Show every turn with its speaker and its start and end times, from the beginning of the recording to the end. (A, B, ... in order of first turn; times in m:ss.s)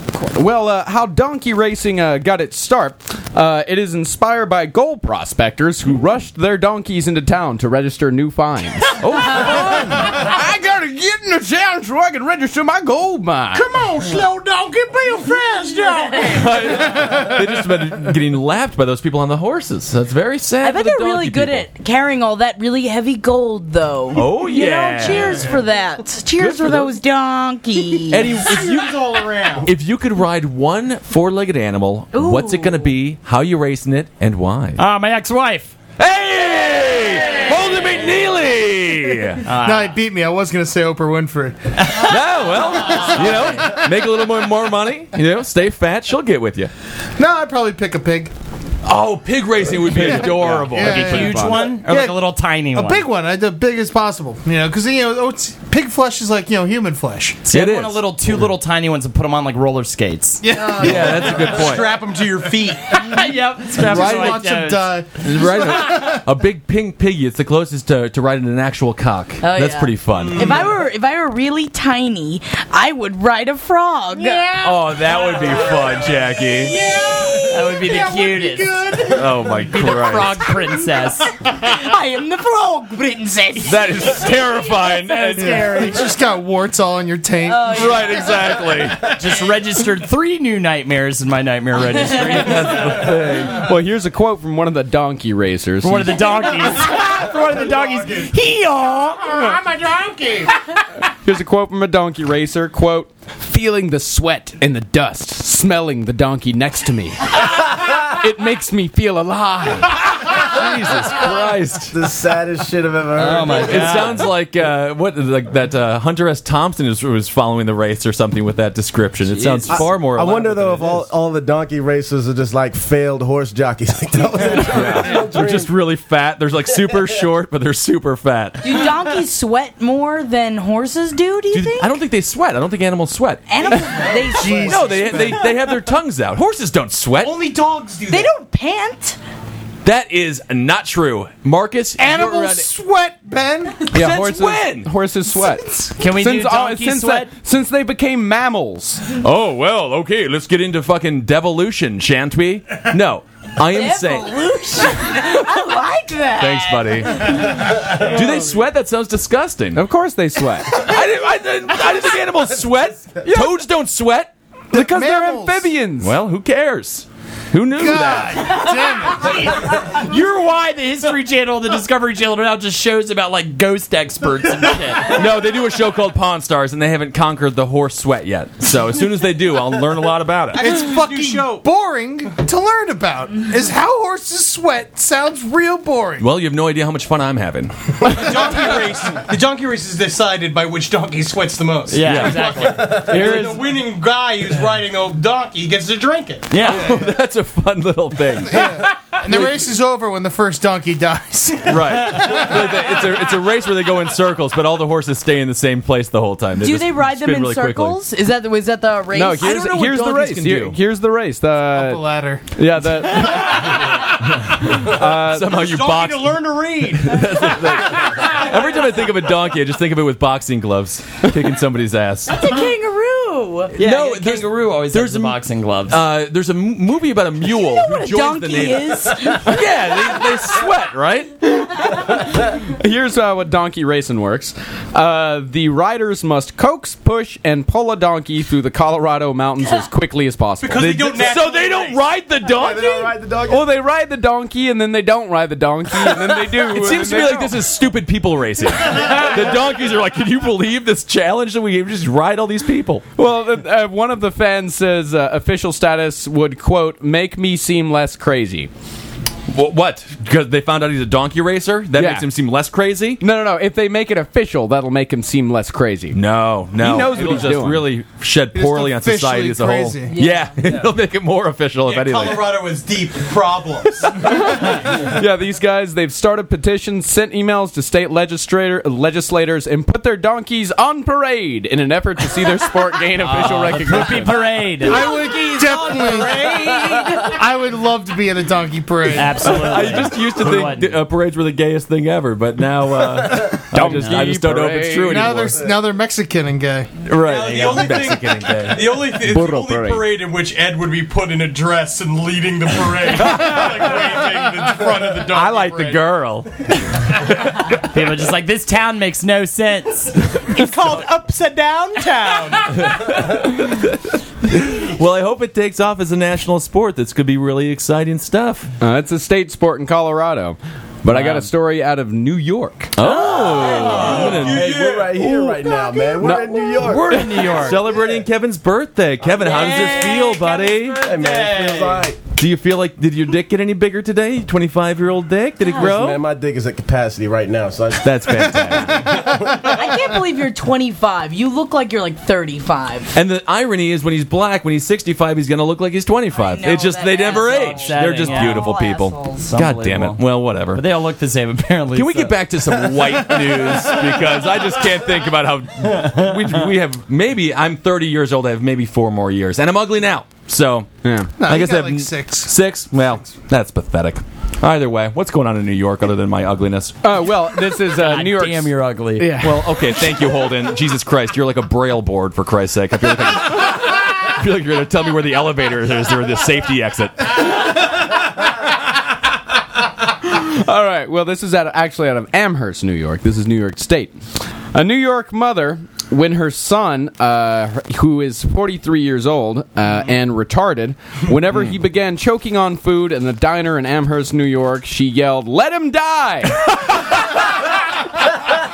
0:00.2-0:13.6 A
0:09.0-0:10.0 B
0:13.6-0:16.4 C
0:13.6-0:17.4 D
0:15.9-0:16.4 E
0:16.3-0:21.6 B
0:20.6-0:28.4 E
0:24.1-0:25.6 B
0:26.4-0:26.9 B
0:28.1-0:34.8 B
0:28.3-0:29.7 C
0:32.1-0:32.8 E
0:34.8-0:35.7 F
0:36.0-0:39.5 B
0:39.4-0:40.0 F
0:39.6-0:42.1 D
0:41.9-0:46.7 B
0:42.8-0:43.9 D
0:47.2-0:48.3 D
0:48.8-0:51.4 B
0:49.8-0:57.4 D
0:49.9-0:51.7 A
0:50.8-0:53.1 F
0:57.4-1:00.4 F
0:57.5-0:58.1 B
1:00.4-1:01.5 D
1:00.7-1:02.0 B
1:00.8-1:03.2 C
1:03.0-1:05.0 F
1:03.7-1:06.2 D
1:03.9-1:04.4 B
1:05.2-1:10.6 B
1:09.4-1:14.6 E
1:14.2-1:15.7 D
1:14.6-1:16.8 B
1:16.6-1:19.3 D
1:16.7-1:17.4 C
1:17.3-1:21.3 F
1:19.1-1:20.5 B
1:21.4-1:25.4 E
1:23.6-1:26.0 B
1:25.3-1:27.7 D
1:27.4-1:28.8 E
1:27.6-1:29.1 B
1:29.0-1:33.0 F
1:31.9-1:32.9 E
1:32.1-1:33.7 B
1:33.4-1:36.4 A
1:35.8-1:39.6 F
1:36.8-1:38.3 D
1:39.3-1:40.5 D
1:41.2-1:50.0 A
1:49.9-1:52.0 B
1:51.9-1:54.1 G
1:53.1-1:54.3 F
1:53.5-2:01.1 B
1:59.2-1:59.8 F
1:59.7-2:05.7 G
2:04.5-2:08.8 B
2:08.6-2:12.0 E
2:11.5-2:13.4 B
2:13.5-2:14.9 E
2:14.0-2:15.5 D
2:14.6-2:17.4 B
2:17.2-2:18.3 C
2:18.1-2:19.2 E
2:19.8-2:22.7 B
2:22.0-2:23.9 D
2:23.9-2:24.9 B
2:23.9-2:29.0 A
2:26.0-2:27.3 F
2:29.2-2:35.6 B
2:33.7-2:37.6 E
2:36.4-2:39.8 B
2:39.7-2:40.8 A
2:40.7-2:44.3 B
2:44.7-2:46.1 A
2:44.7-2:45.7 D
2:46.0-2:48.7 B
2:47.7-2:49.7 D
2:49.2-2:55.2 F
2:55.0-3:00.8 B
3:00.5-3:06.3 D
3:00.6-3:01.6 C
3:06.2-3:08.5 B
3:08.0-3:16.5 C
3:08.3-3:09.0 D
3:11.9-3:13.4 F
3:12.0-3:13.4 B
3:13.0-3:13.7 A
3:16.5-3:17.0 F
3:16.6-3:19.7 B
3:18.4-3:22.8 D
3:21.7-3:28.0 B
3:26.6-3:29.8 E
3:29.1-3:33.6 A
3:29.4-3:30.8 B
3:31.6-3:32.4 D
3:34.4-3:42.4 B
3:34.7-3:35.6 A
3:35.5-3:37.4 C
3:42.3-3:43.8 E
3:43.7-3:51.4 B
3:43.8-3:46.0 F
3:47.4-3:49.9 E
3:51.9-4:00.9 A
4:00.6-4:02.0 C
4:00.7-4:03.2 B
4:02.4-4:03.7 G
4:03.4-4:07.6 A
4:06.0-4:13.0 B
4:13.2-4:18.7 A
4:19.5-4:23.2 B
4:21.9-4:22.3 A
4:23.2-4:26.2 A
4:26.1-4:32.6 B
4:26.7-4:27.9 A
4:28.5-4:30.2 D
4:30.1-4:30.5 E
4:31.8-4:34.2 C
4:34.8-4:44.6 A
4:43.2-4:45.1 F
4:44.8-4:46.5 D
4:44.9-4:47.4 E
4:46.0-4:47.1 F
4:47.2-4:49.6 D
4:49.1-4:51.0 F
4:49.4-4:55.6 B
4:53.7-4:54.3 F
4:53.7-4:55.4 A
4:55.0-4:56.9 D
4:57.0-4:59.1 B
4:57.2-5:06.2 C
4:59.1-5:00.1 A
5:03.2-5:04.0 B
5:04.2-5:05.1 D
5:05.2-5:06.5 B
5:07.8-5:10.2 F
5:10.4-5:12.8 C
5:12.7-5:18.7 B
5:18.8-5:22.9 A
5:21.1-5:21.4 F
5:23.0-5:24.8 B
5:23.2-5:25.2 C
5:23.4-5:24.2 F
5:24.0-5:27.4 G
5:25.5-5:26.2 E
5:26.2-5:26.8 A
5:26.8-5:28.0 F
5:27.3-5:31.0 B
5:29.3-5:32.0 F
5:29.4-5:30.2 E
5:29.5-5:30.4 C
5:31.0-5:32.2 G
5:31.2-5:31.8 C
5:32.3-5:36.2 B
5:35.6-5:35.9 E
5:35.8-5:39.0 G
5:38.0-5:39.3 B
5:38.3-5:40.1 D
5:39.6-5:43.1 E
5:43.1-5:50.8 B
5:46.3-5:49.5 E
5:47.4-5:48.8 F
5:49.4-5:52.4 F
5:51.9-6:00.9 B
6:01.0-6:01.3 A
6:01.4-6:02.6 D
6:01.4-6:07.0 B
6:07.0-6:09.9 A
6:07.8-6:09.4 F
6:09.4-6:17.4 B
6:20.3-6:24.2 A
6:24.7-6:36.7 A